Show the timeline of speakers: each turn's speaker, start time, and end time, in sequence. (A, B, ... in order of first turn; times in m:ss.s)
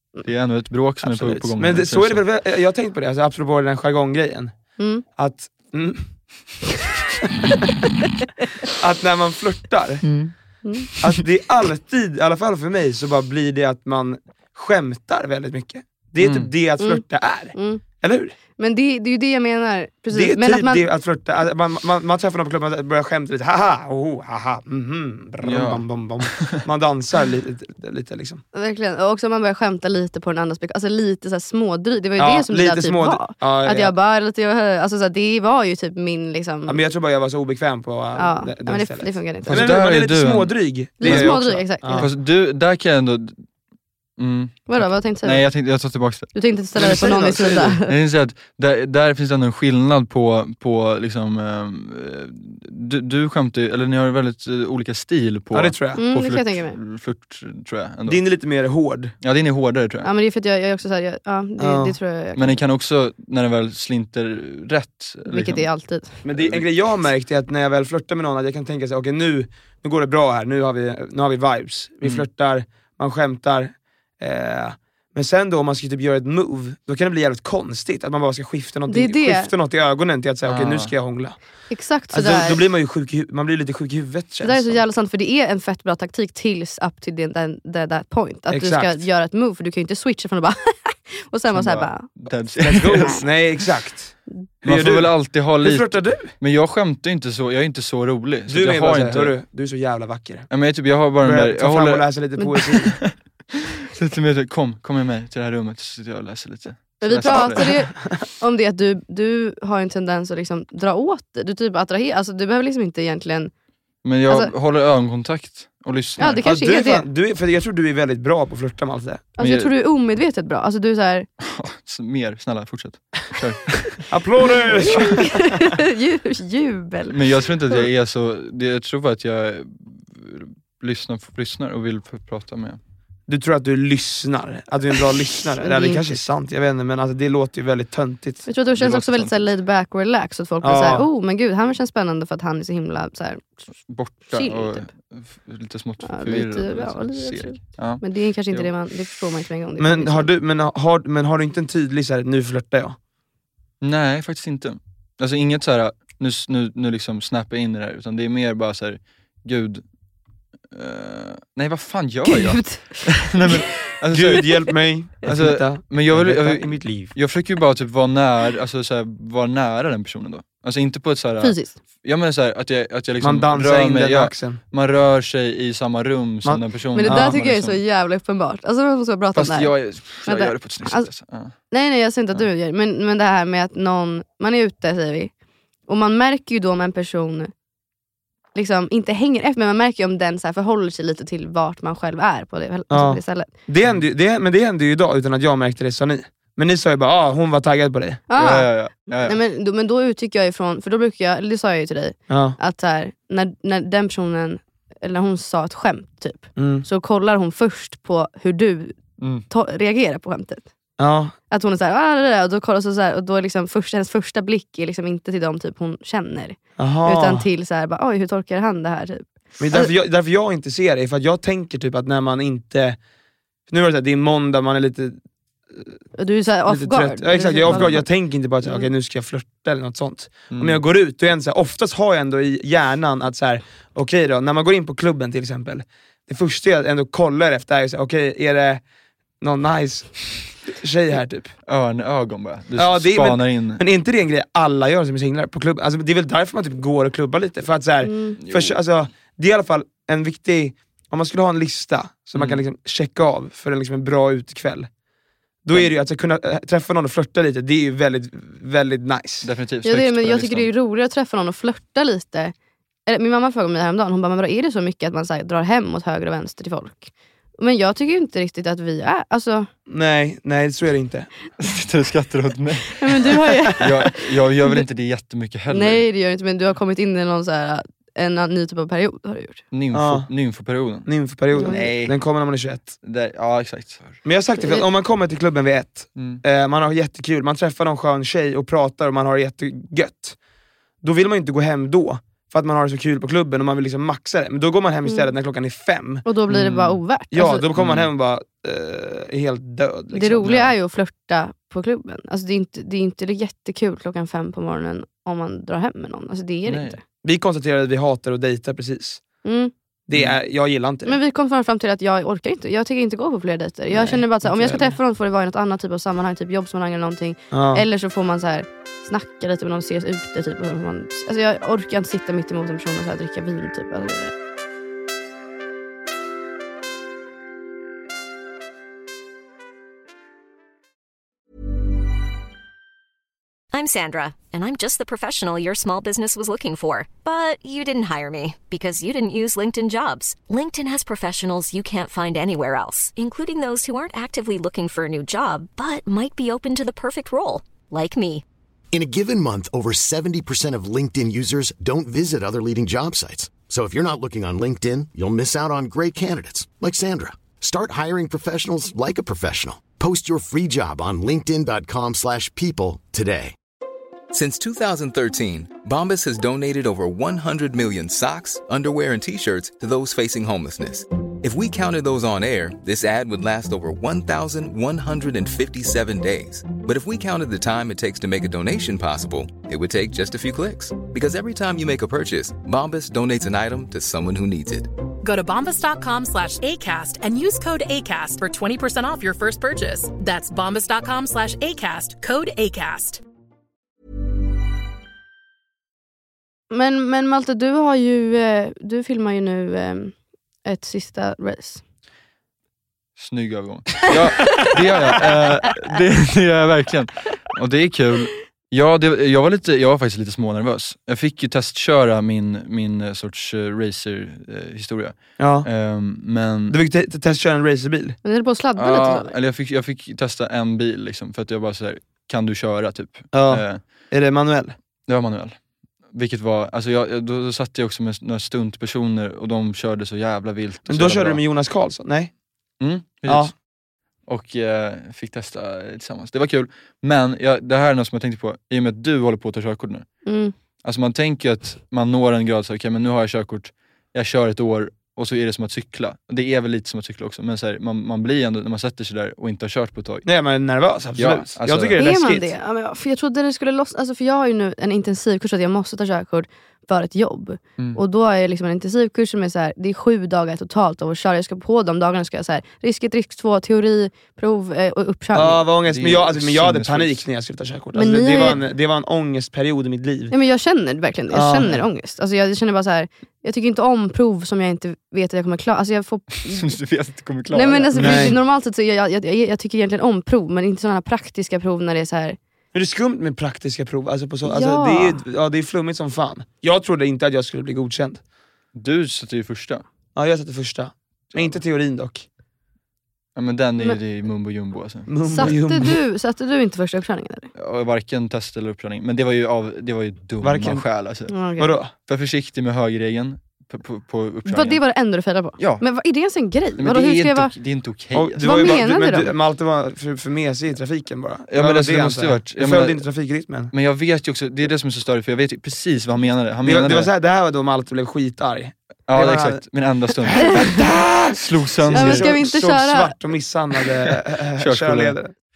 0:00.2-0:02.2 A
0:01.0-0:04.6 B
0:04.8-0:05.0 C
0:05.1-0:06.1 B
0:08.7-0:10.1 B
0:10.6-0:10.9 C
0:11.0-0:18.3 B
0:16.2-0:16.5 A
0:16.8-0:17.8 C
0:18.6-0:20.8 C
0:20.1-0:28.4 B
0:25.4-0:26.6 A
0:28.5-0:36.8 C
0:32.2-0:33.9 B
0:36.7-0:42.1 B
0:38.2-0:39.7 C
0:39.5-0:43.5 A
0:41.0-0:42.0 C
0:44.2-0:46.3 A
0:44.7-0:45.5 C
0:46.3-0:47.9 C
0:46.8-0:47.8 B
0:47.8-0:58.2 A
0:55.5-0:56.0 B
0:56.0-0:56.8 C
0:58.1-0:59.1 B
0:59.2-1:00.1 A
1:00.0-1:02.6 C
1:01.6-1:02.0 B
1:02.4-1:05.6 A
1:05.2-1:06.2 C
1:06.2-1:21.4 B
1:06.3-1:06.7 A
1:18.9-1:19.5 C
1:20.4-1:20.9 A
1:21.7-1:22.6 C
1:22.1-1:24.8 B
1:24.4-1:32.1 C
1:28.5-1:29.0 B
1:31.5-1:33.2 A
1:32.6-1:36.3 B
1:34.6-1:39.3 A
1:38.5-1:40.5 B
1:40.5-1:42.1 A
1:41.2-1:42.9 B
1:42.8-1:47.7 A
1:47.0-1:53.5 C
1:47.2-1:48.0 B
1:54.0-1:56.5 A
1:54.3-1:54.5 C
1:56.2-1:57.0 C
1:56.2-1:59.2 B
1:59.4-2:01.3 C
1:59.4-1:59.7 A
2:01.4-2:04.0 A
2:04.1-2:05.6 B
2:04.8-2:07.8 C
2:07.1-2:12.8 A
2:13.3-2:18.4 B
2:15.6-2:16.0 C
2:18.4-2:23.6 C
2:18.7-2:19.5 A
2:20.6-2:21.1 B
2:23.9-2:29.1 A
2:24.3-2:24.9 C
2:26.0-2:30.3 C
2:29.8-2:33.0 B
2:33.8-2:39.8 A
2:40.7-2:44.7 A
2:42.2-2:43.8 C
2:44.1-2:47.1 B
2:45.2-2:57.8 A
2:51.4-2:51.8 C
2:53.2-2:54.6 B
2:56.4-2:57.4 B
2:56.9-3:01.1 C
2:59.3-3:01.5 A
3:01.7-3:05.3 C
3:05.9-3:07.5 C
3:08.5-3:13.5 C
3:12.9-3:18.2 B
3:18.3-3:30.7 C
3:18.4-3:19.4 A
3:22.3-3:22.6 B
3:26.6-3:26.8 B
3:29.2-3:29.4 A
3:31.0-3:31.3 B
3:31.5-3:39.9 C
3:36.8-3:37.4 B
3:39.6-3:43.0 B
3:43.7-3:45.2 B
3:45.7-3:46.0 B
3:46.2-3:48.1 C
3:46.6-3:58.8 B
3:47.6-3:48.0 A
3:50.5-3:50.8 A
3:59.4-4:01.5 B
4:01.7-4:03.8 A
4:02.8-4:14.9 B
4:08.0-4:08.4 C
4:08.4-4:08.8 A
4:12.3-4:12.6 A
4:15.6-4:19.5 B
4:19.4-4:20.7 A
4:19.8-4:22.5 C
4:23.0-4:29.7 C
4:29.9-4:31.3 B
4:31.6-4:36.0 A
4:33.0-4:34.8 C
4:35.7-4:39.6 C
4:39.7-4:42.2 A
4:39.9-4:40.3 B
4:41.1-4:42.9 B
4:41.6-4:41.8 C
4:43.0-4:44.2 A
4:44.2-4:50.4 B
4:44.6-4:44.8 C
4:46.2-4:46.4 A
4:51.0-4:56.2 B
4:56.2-4:57.6 C
4:56.5-4:57.0 A
4:57.3-5:00.6 B
4:57.8-4:58.1 A
5:00.1-5:07.0 C
5:06.7-5:07.0 A
5:07.2-5:09.2 B
5:09.4-5:09.7 C
5:10.1-5:11.2 B
5:11.0-5:24.3 C
5:13.9-5:14.9 B
5:17.5-5:17.8 B
5:33.7-5:48.4 D
5:48.9-6:03.5 E
6:04.3-6:24.9 F
6:25.2-6:33.2 G
6:36.7-6:41.8 C
6:43.2-6:56.8 A
6:55.4-6:55.7 B
6:56.7-6:58.2 B
6:58.2-6:59.3 C
6:58.8-7:03.8 A
7:03.3-7:04.8 B
7:05.1-7:11.4 A
7:10.9-7:12.3 B
7:12.8-7:13.6 A
7:13.2-7:13.5 B
7:14.2-7:20.2 A
7:20.2-7:20.5 C
7:20.8-7:30.3 A
7:30.2-7:32.5 B
7:31.2-7:32.0 A
7:32.0-7:45.6 C
7:45.3-7:50.3 B
7:45.8-7:47.2 A
7:47.9-7:48.6 C
7:50.3-7:56.8 C
7:51.3-7:51.8 B
7:56.5-7:58.4 A
7:57.5-8:02.4 C
7:57.9-7:58.4 B
8:02.7-8:08.2 B
8:04.4-8:05.2 C
8:08.7-8:09.8 A
8:10.2-8:12.2 B
8:11.3-8:11.6 A
8:13.4-8:15.9 A
8:15.1-8:16.0 B
8:15.2-8:17.5 C
8:17.5-8:21.4 A
8:20.4-8:20.8 B
8:21.3-8:21.8 C
8:21.6-8:21.9 B
8:22.0-8:24.8 A
8:24.4-8:27.5 C
8:25.6-8:25.8 A
8:26.8-8:28.8 A
8:28.1-8:33.7 B
8:28.4-8:29.3 C
8:31.5-8:33.1 A
8:33.7-8:37.1 A
8:36.6-8:39.6 B
8:39.1-8:40.6 A
8:40.2-8:45.3 B
8:41.3-8:42.3 A
8:41.9-8:43.2 C
8:44.6-8:45.2 A